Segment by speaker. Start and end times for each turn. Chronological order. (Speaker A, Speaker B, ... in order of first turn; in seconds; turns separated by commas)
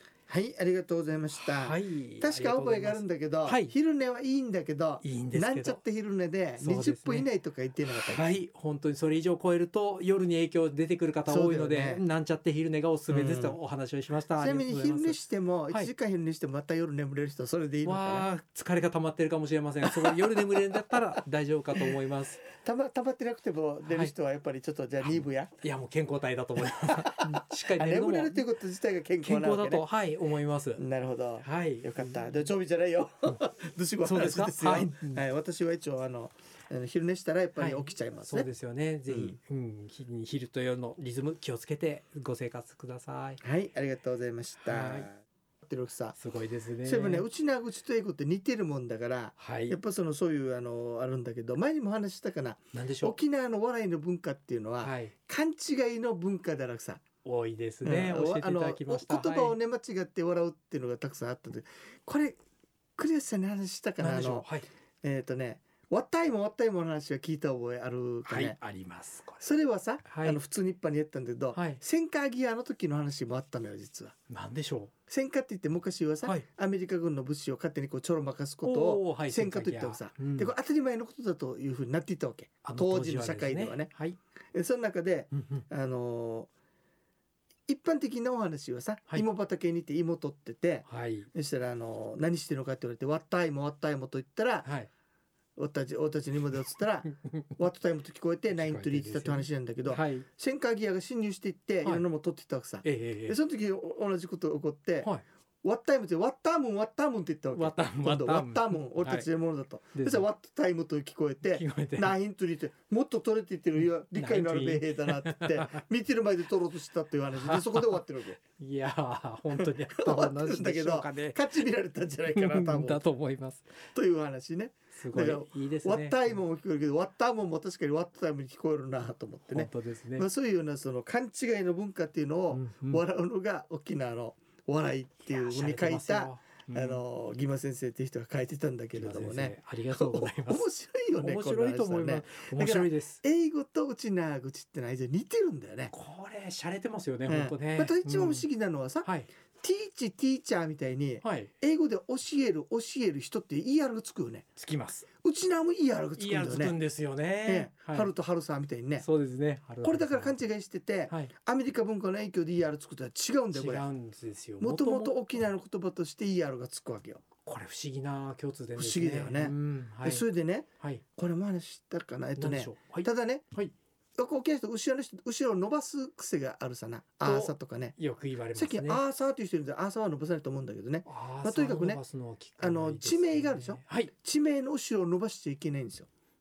Speaker A: 0.3-8.3, Speaker B: 1.3-3.7, Speaker B: 5.0-5.8, Speaker B: 6.6-7.3, Speaker B: 7.8-15.9, Speaker A: 11.2-12.0, Speaker A: 13.1-13.6, Speaker A: 14.3-18.3, Speaker B: 17.8-22.4, Speaker A: 19.9-20.8, Speaker A: 22.5-25.5, Speaker B: 23.9-24.1, Speaker B: 25.2-28.4, Speaker A: 27.0-29.9, Speaker B: 29.2-30.8, Speaker A: 30.8-38.5, Speaker B: 31.4-32.4, Speaker B: 34.0-35.2, Speaker B: 37.5-43.4, Speaker A: 39.1-39.4, Speaker A: 43.4-46.2, Speaker B: 44.6-45.1, Speaker B: 46.2-47.3, Speaker A: 46.8-57.0, Speaker B: 49.4-49.8, Speaker B: 52.7-53.2, Speaker B: 54.8-55.1, Speaker B: 57.2-59.6, Speaker A: 57.8-62.4, Speaker A: 63.0-64.5, Speaker B: 64.0-64.7, Speaker A: 65.0-68.6, Speaker B: 68.2-69.4, Speaker A: 69.4-74.1, Speaker B: 70.0-70.4, Speaker B: 71.5-71.8, Speaker B: 74.3-74.9, Speaker A: 75.1-83.9, Speaker B: 78.6-80.5, Speaker B: 82.6-84.2, Speaker A: 84.5-86.5, Speaker B: 85.3-85.6, Speaker A: 87.7-94.7, Speaker B: 90.8-91.3, Speaker B: 94.6-94.9, Speaker A: 95.6-105.1, Speaker B: 98.5-100.2, Speaker B: 102.8-103.4, Speaker A: 105.6-118.4, Speaker B: 107.5-109.3, Speaker B: 109.9-110.3, Speaker B: 111.5-112.1, Speaker B: 114.1-115.8, Speaker B: 117.3-118.0, Speaker B: 118.6-121.6, Speaker A: 119.6-123.0, Speaker B: 122.3-123.7, Speaker A: 123.9-145.9, Speaker B: 124.9-126.4, Speaker B: 129.4-130.3, Speaker B: 132.5-133.0, Speaker B: 135.2-137.0, Speaker B: 138.9-143.2, Speaker B: 145.9-148.4, Speaker A: 147.2-154.4, Speaker B: 149.0-149.3, Speaker B: 151.2-151.5, Speaker B: 154.6-155.1, Speaker A: 155.2-156.8, Speaker B: 156.2-158.1, Speaker A: 157.4-159.1, Speaker B: 159.0-160.3, Speaker A: 159.8-163.8, Speaker B: 163.5-165.2, Speaker A: 164.6-167.2, Speaker B: 167.4-170.2, Speaker A: 168.8-173.4, Speaker B: 170.8-171.0, Speaker B: 172.3-173.7, Speaker A: 174.2-178.0, Speaker B: 177.2-179.0, Speaker A: 178.5-182.0, Speaker B: 181.1-184.1, Speaker A: 182.6-186.1